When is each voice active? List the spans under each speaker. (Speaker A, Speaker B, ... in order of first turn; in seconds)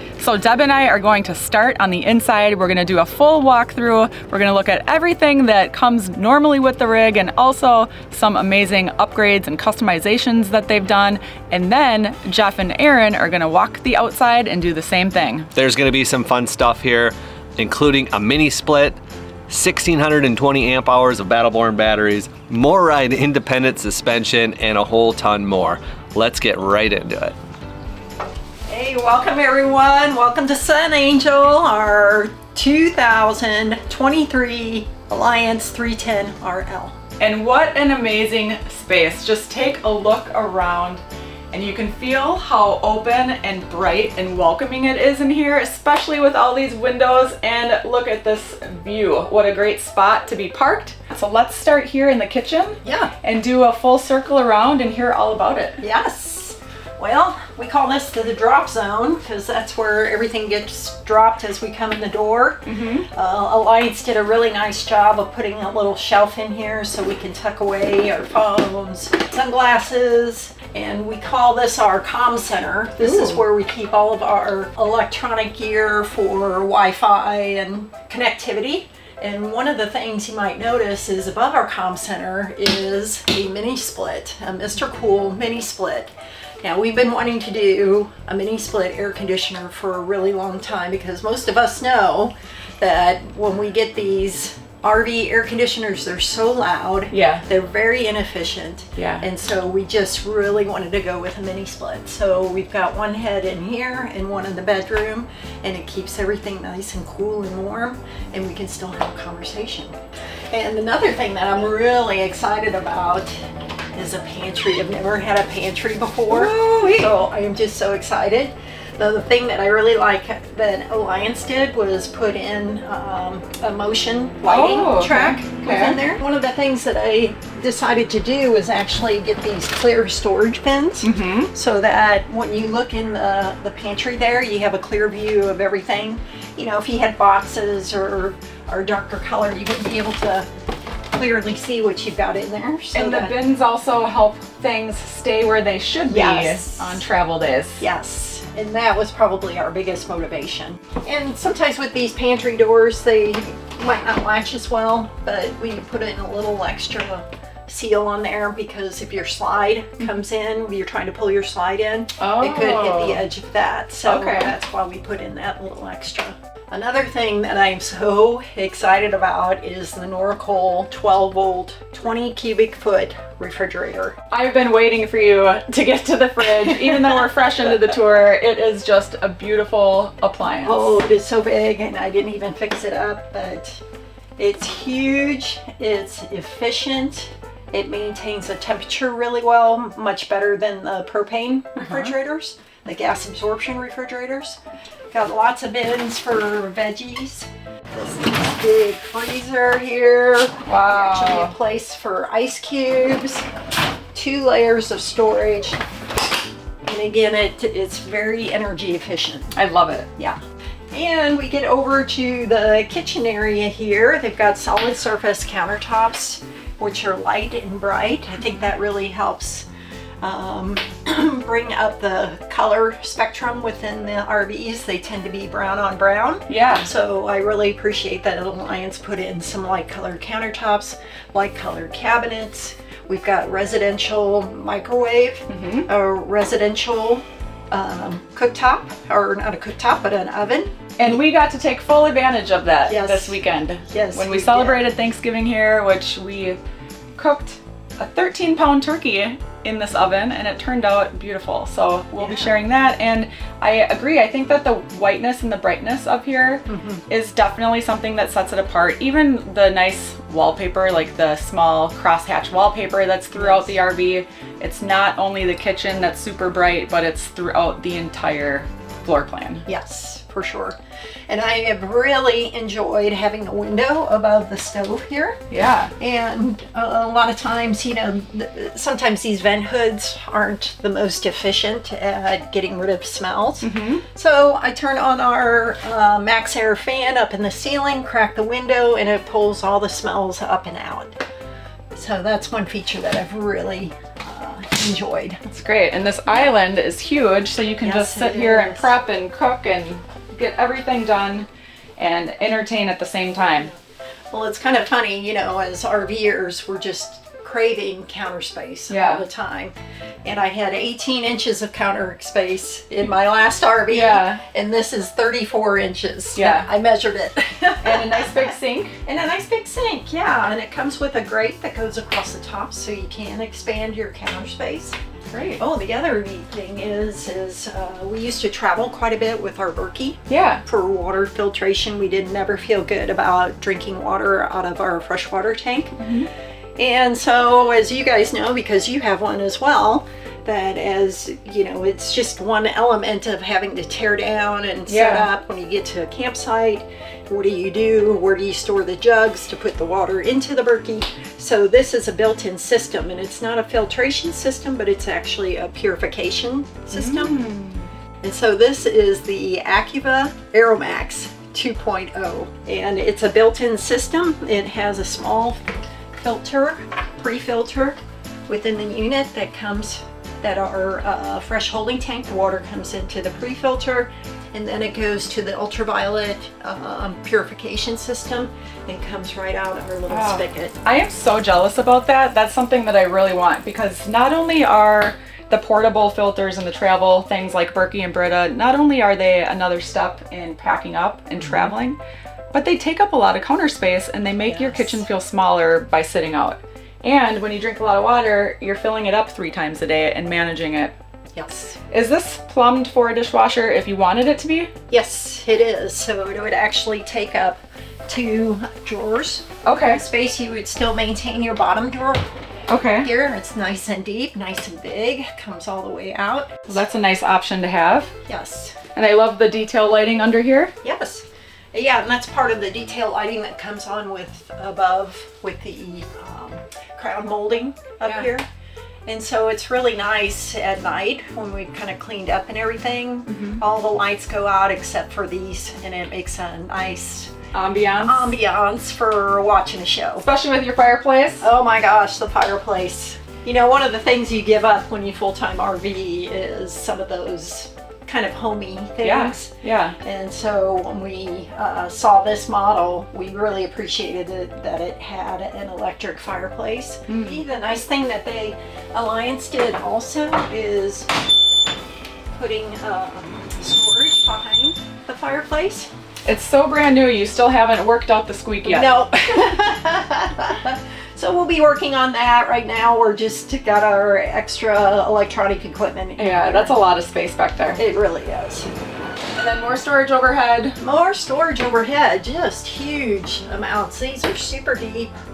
Speaker A: 0.2-15.5, 37.2-55.8, 62.6-63.1, 73.0-73.4, 97.1-97.4, 99.0-99.2, 116.3-117.1, 124.5-126.0, 131.0-131.5, 142.9-147.8, 162.2-163.2, 164.0-164.5, 174.3-180.9, 191.8-192.1, 200.7-201.6, 209.5-210.1, 226.5-226.9, 235.5-235.9, 241.0-246.6, 247.2-269.6, 275.5-275.9, 283.6-284.0, 295.4-301.5, 302.0-303.7, 308.9-309.2, 313.9-314.4, 316.3-316.7, 317.8-318.9, 325.3-325.6, 330.3-330.6, 336.0-336.3, 344.9-345.3, 356.9-357.9, 380.1-392.0, 392.5-400.9, 401.9-404.7, 409.6-410.0, 412.7-413.1, 416.7-418.1, 418.9-420.7, 428.1-428.3, 433.3-433.6, 437.5-438.3, 440.2-441.5, 449.0-450.0, 457.1-457.4, 466.2-469.0, 476.2-477.8, 479.4-480.8
Speaker B: 15.5-19.0, 19.5-27.3
Speaker C: 28.7-37.0, 52.8-53.1, 55.8-110.0, 110.5-113.3, 113.9-140.5, 141.1-143.4, 146.1-147.0, 147.8-174.2, 176.5-177.2, 180.6-183.8, 184.4-194.6, 195.1-203.5, 204.1-205.8, 206.8-209.5, 210.9-219.7, 220.2-241.1, 242.9-243.4, 243.9-244.8, 252.2-252.6, 256.6-257.0, 263.3-263.8, 269.6-275.4, 276.0-291.2, 291.9-295.4, 297.8-298.9, 304.3-325.0, 325.6-336.1, 336.8-357.4, 358.2-368.0, 368.5-380.8, 391.4-391.7, 394.4-395.1, 401.3-401.8, 404.9-412.2, 412.9-416.9, 418.3-418.8, 420.8-428.5, 429.1-437.3, 437.9-440.2, 441.4-461.1, 462.3-465.9, 468.6-476.8, 477.8-478.7, 480.8-485.1